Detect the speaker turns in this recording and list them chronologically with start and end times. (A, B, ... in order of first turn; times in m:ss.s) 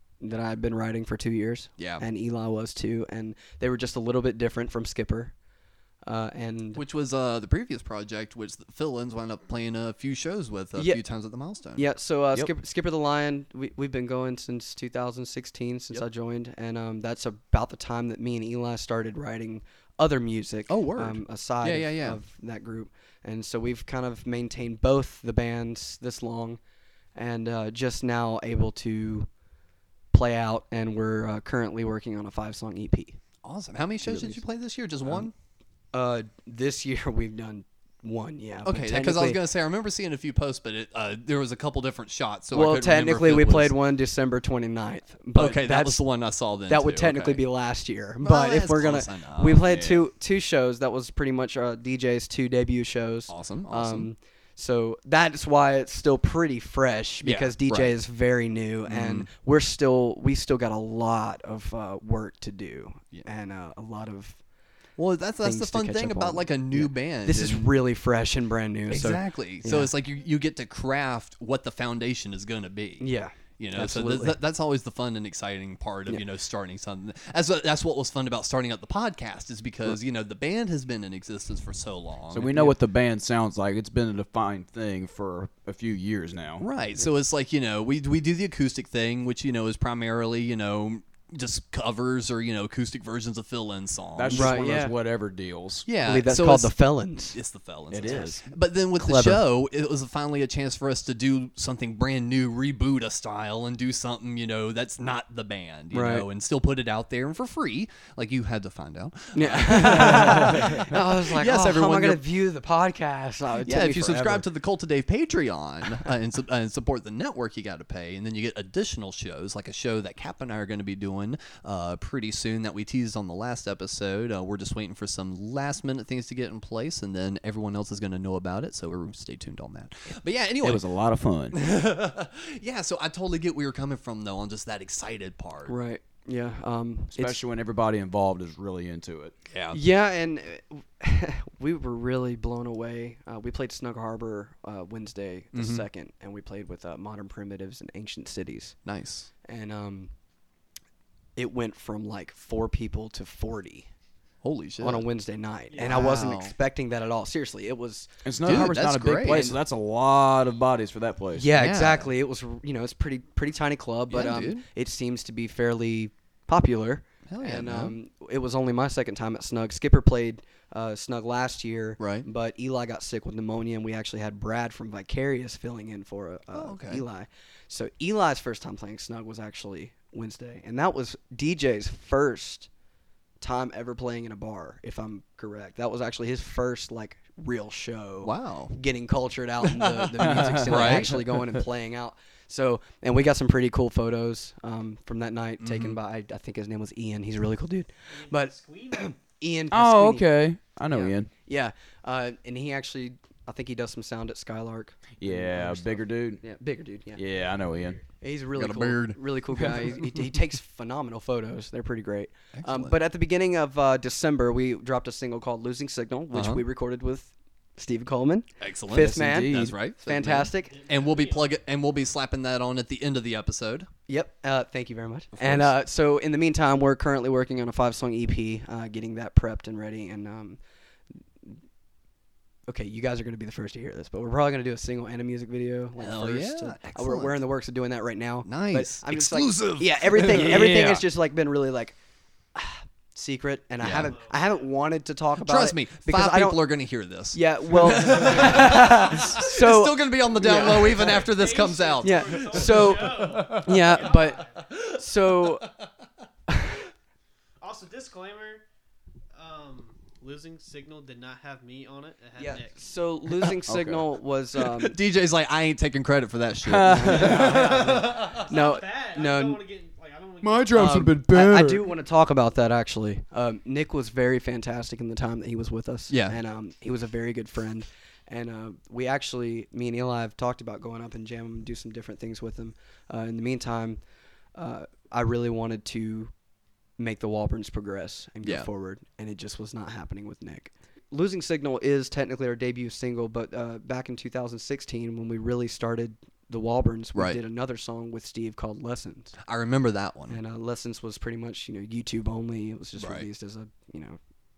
0:00.2-0:05.3 A
0:01.8-0:02.0 B
0:06.0-0:06.8 A
0:06.8-0:11.8 B
0:10.8-0:11.0 A
0:11.8-0:26.6 A
0:20.7-0:22.2 B
0:27.2-0:29.3 A
0:30.1-0:33.2 A
0:33.4-0:35.3 B
0:34.1-0:34.4 A
0:35.0-0:35.3 A
0:35.9-0:39.4 A
0:38.6-0:43.8 B
0:42.5-0:46.0 A
0:45.4-0:47.4 B
0:46.7-1:04.4 A
0:48.2-0:49.8 B
0:49.7-0:50.0 C
0:53.3-0:54.1 B
0:57.2-0:58.0 B
0:58.9-0:59.3 B
1:05.0-1:07.8 B
1:05.4-1:09.9 A
1:08.9-1:22.6 B
1:13.0-1:14.4 A
1:22.3-1:26.6 C
1:26.6-1:34.7 B
1:34.2-1:35.9 C
1:34.3-1:34.9 A
1:35.9-1:36.8 B
1:36.0-1:37.4 A
1:37.3-1:52.2 B
1:37.9-1:38.4 C
1:38.0-1:38.4 A
1:39.0-1:39.4 A
1:45.9-1:46.3 A
1:49.3-1:54.4 A
1:50.0-1:50.8 C
1:53.6-2:10.8 B
1:54.1-1:54.4 C
2:10.6-2:11.6 C
2:11.5-2:15.7 B
2:15.7-2:17.4 A
2:17.1-2:19.3 C
2:19.5-2:19.8 B
2:19.7-2:28.8 A
2:25.5-2:25.8 B
2:28.9-2:29.3 B
2:29.4-2:30.1 A
2:31.4-2:33.9 A
2:34.4-2:35.0 B
2:34.8-2:38.7 A
2:35.8-2:36.5 B
2:38.2-2:41.5 C
2:38.4-2:39.5 B
2:39.3-2:39.6 A
2:41.4-3:02.7 A
2:41.6-2:42.1 B
2:44.1-2:44.6 B
2:47.3-2:47.9 B
2:52.0-2:52.3 B
2:56.5-2:57.0 B
3:03.4-3:27.2 A
3:08.2-3:08.8 B
3:09.7-3:11.2 B
3:10.2-3:11.2 C
3:15.6-3:16.0 B
3:18.1-3:19.2 D
3:19.7-3:21.3 C
3:25.2-3:26.4 C
3:27.2-3:28.0 C
3:27.3-3:28.0 D
3:28.2-3:40.7 A
3:28.6-3:29.2 B
3:32.5-3:33.0 B
3:36.3-3:36.6 B
3:38.6-3:43.9 B
3:38.9-3:39.8 C
3:40.6-3:41.6 D
3:44.1-3:50.6 A
3:45.4-3:45.7 B
3:52.7-4:02.0 A
3:56.0-3:57.4 B
3:58.4-4:00.7 B
4:00.2-4:01.0 C
4:02.6-4:06.6 A
4:03.8-4:04.1 B
4:03.9-4:04.7 D
4:05.4-4:14.0 B
4:07.3-4:11.2 A
4:10.9-4:14.8 D
4:12.0-4:14.4 A
4:15.0-4:15.7 A
4:17.6-4:18.6 D
4:19.3-4:23.0 D
4:22.4-4:24.9 A
4:23.7-4:24.0 C
4:24.6-4:28.3 B
4:26.6-4:28.0 C
4:26.9-4:29.6 A
4:27.4-4:30.9 D
4:30.4-4:31.8 C
4:30.7-4:44.0 A
4:36.1-4:36.4 B
4:44.6-4:46.3 A
4:47.0-4:59.4 A
4:59.4-5:00.4 B
5:00.3-5:04.2 A
5:03.0-5:03.3 B